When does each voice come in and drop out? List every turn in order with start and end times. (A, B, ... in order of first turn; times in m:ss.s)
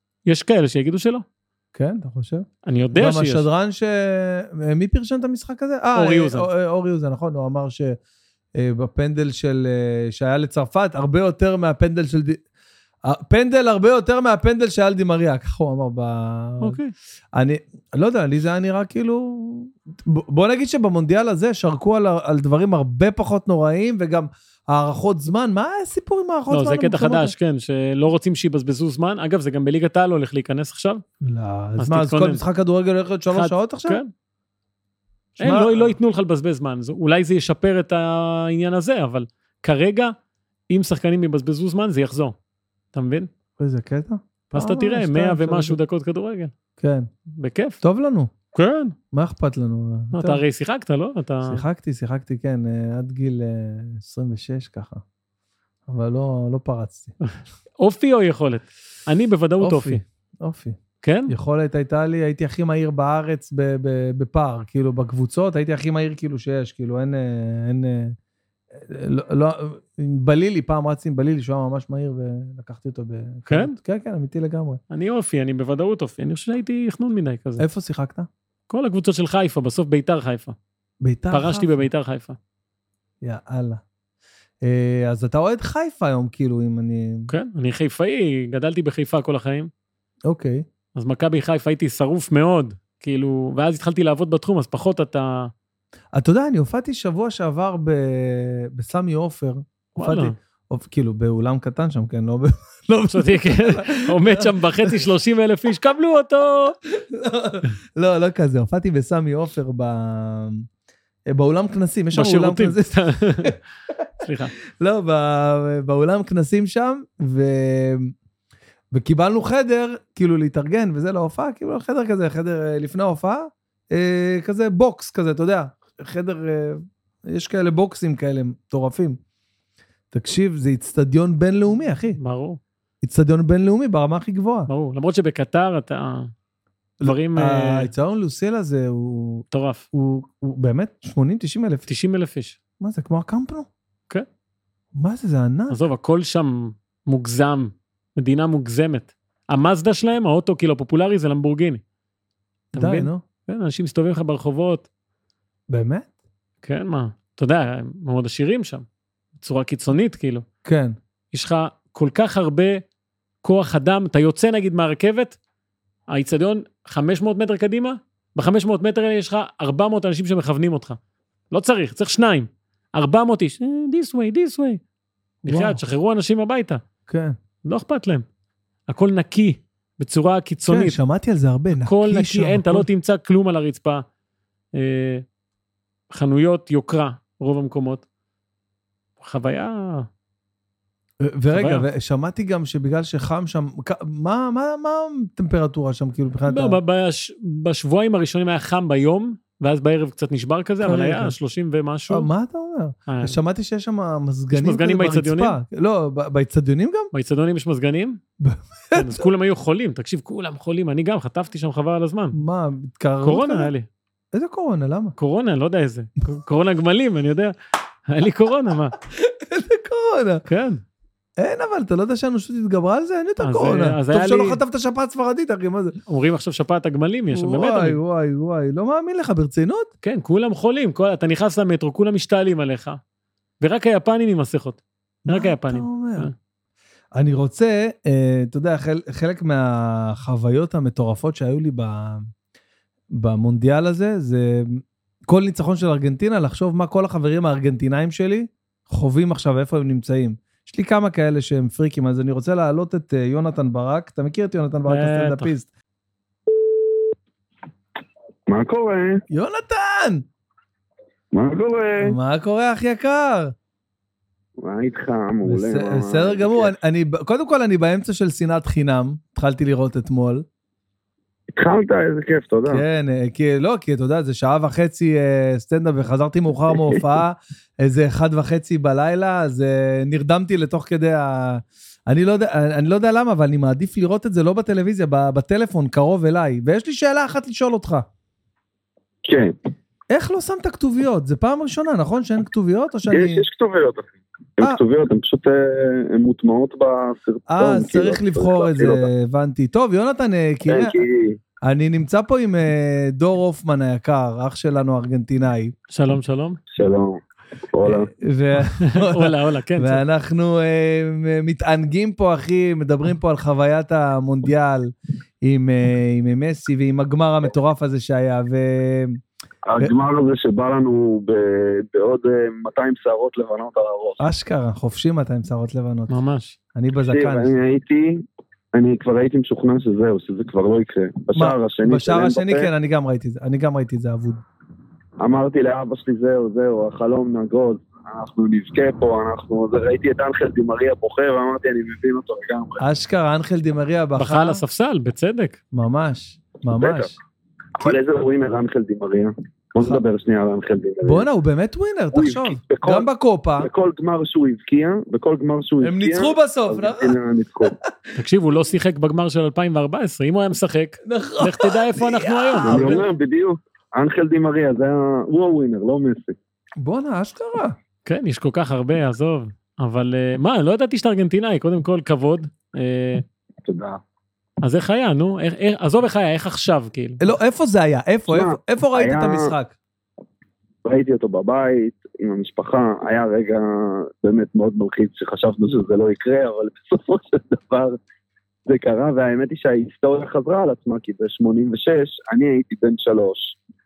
0:00.2-0:01.2 A
0:01.7-0:08.0 B
0:02.6-0:03.5 A
0:05.9-0:06.5 A
0:08.5-0:12.4 B
0:13.0-0:16.8 B
0:16.6-0:16.9 A
0:17.3-0:27.3 B
0:26.5-0:31.0 A
0:31.2-0:34.0 B
0:31.8-0:32.4 A
0:33.3-0:34.1 A
0:35.4-0:40.1 A
0:35.4-0:36.0 B
0:40.7-0:42.3 A
0:42.9-0:43.3 A
0:43.6-0:45.8 B
0:44.5-0:46.5 A
0:46.8-0:47.1 B
0:47.4-0:47.8 A
0:47.8-0:48.3 B
0:48.5-0:49.0 A
0:49.1-0:50.4 B
0:50.1-0:51.6 A
0:51.4-0:55.0 B
0:55.9-0:57.1 B
0:57.2-1:00.0 A
0:59.6-1:00.8 B
1:01.0-1:01.3 A
1:01.3-1:08.2 B
1:08.7-1:14.8 B
1:13.5-1:13.7 A
1:14.9-1:17.6 A
1:17.6-1:18.3 B
1:18.7-1:20.6 A
1:21.0-1:21.9 B
1:21.3-1:22.4 A
1:23.2-1:23.8 B
1:24.6-1:27.3 B
1:27.3-1:29.7 A
1:30.2-1:30.6 B
1:30.9-1:35.5 A
1:36.1-1:45.0 B
1:40.0-1:40.3 A
1:43.1-1:46.8 A
1:46.9-1:50.6 B
1:51.3-1:53.6 B
1:52.1-1:53.6 A
1:54.2-1:54.5 A
1:54.7-1:58.1 B
1:58.9-2:09.2 B
2:10.1-2:12.2 B
2:12.2-2:12.6 A
2:13.0-2:14.7 B
2:14.7-2:16.3 A
2:17.0-2:21.8 B
2:17.0-2:17.9 A
2:19.5-2:19.8 A
2:21.9-2:22.6 A
2:22.8-2:23.7 B
2:24.9-2:25.8 B
2:25.7-2:31.8 A
2:32.7-2:34.9 A
2:32.7-2:33.2 B
2:35.7-2:36.1 B
2:36.6-2:38.8 A
2:39.4-2:40.4 A
2:40.6-2:41.0 B
2:41.3-2:42.8 A
2:43.4-2:45.4 A
2:46.1-2:51.0 A
2:51.5-2:54.8 A
2:55.4-2:55.8 B
2:55.4-2:56.8 A
2:57.1-2:57.4 B
2:57.6-2:58.2 A
2:58.9-3:01.0 A
3:00.7-3:02.9 B
3:01.8-3:04.0 A
3:04.7-3:05.2 A
3:06.1-3:08.0 A
3:09.2-3:10.1 A
3:11.2-3:16.8 B
3:11.5-3:11.8 A
3:16.5-3:22.3 A
3:20.8-3:21.4 B
3:22.1-3:27.1 B
3:23.1-3:23.4 A
3:24.5-3:25.6 A
3:27.1-3:28.2 A
3:28.4-3:29.3 B
3:28.9-3:32.4 A
3:32.3-3:33.7 B
3:33.2-3:33.9 A
3:34.3-3:35.1 B
3:35.2-3:37.5 A
3:38.1-3:39.0 A
3:39.1-3:40.4 B
3:40.4-3:40.8 A
3:41.4-3:46.0 B
3:43.4-3:44.6 A
3:46.1-3:48.0 A
3:47.3-3:49.9 B
3:50.0-3:53.0 A
3:53.6-3:56.3 A
3:55.3-3:56.3 B
3:57.1-4:02.3 B
4:03.1-4:15.7 B
4:14.8-4:15.5 A
4:18.5-4:19.2 C
4:19.3-4:20.2 B
4:21.3-4:22.1 C
4:22.0-4:23.5 B
4:24.6-4:26.7 C
4:25.4-4:30.4 B
4:31.6-4:32.8 C
4:32.7-4:48.0 B
4:49.2-4:49.5 C
4:50.1-4:53.4 B
4:53.1-4:59.1 C
4:57.5-5:01.0 B
5:00.7-5:01.4 C
5:01.6-5:05.8 B
5:05.9-5:06.6 A
5:06.7-5:07.2 C
5:07.7-5:08.1 C
5:07.8-5:19.2 B
5:08.9-5:10.0 A
5:19.6-5:24.2 C
5:24.2-5:26.1 B
5:26.1-5:26.6 A
5:26.7-5:27.5 B
5:27.0-5:28.2 C
5:28.7-5:32.7 C
5:31.4-5:34.4 B
5:35.2-5:42.8 C
5:42.8-5:44.6 B
5:44.2-5:45.6 A
5:45.7-5:47.1 B
5:46.8-5:47.1 C
5:47.8-5:51.2 C
5:51.0-5:53.7 B
5:52.1-5:53.0 C
5:53.6-5:57.7 C
5:55.8-5:57.2 B
5:58.2-6:03.0 A
6:01.0-6:03.1 B
6:02.6-6:06.4 C
6:06.8-6:07.8 B
6:08.0-6:13.2 A
6:13.6-6:14.0 C
6:14.6-6:17.3 A
6:17.2-6:19.8 B
6:18.3-6:19.5 C
6:20.8-6:28.0 C
6:28.7-6:33.6 C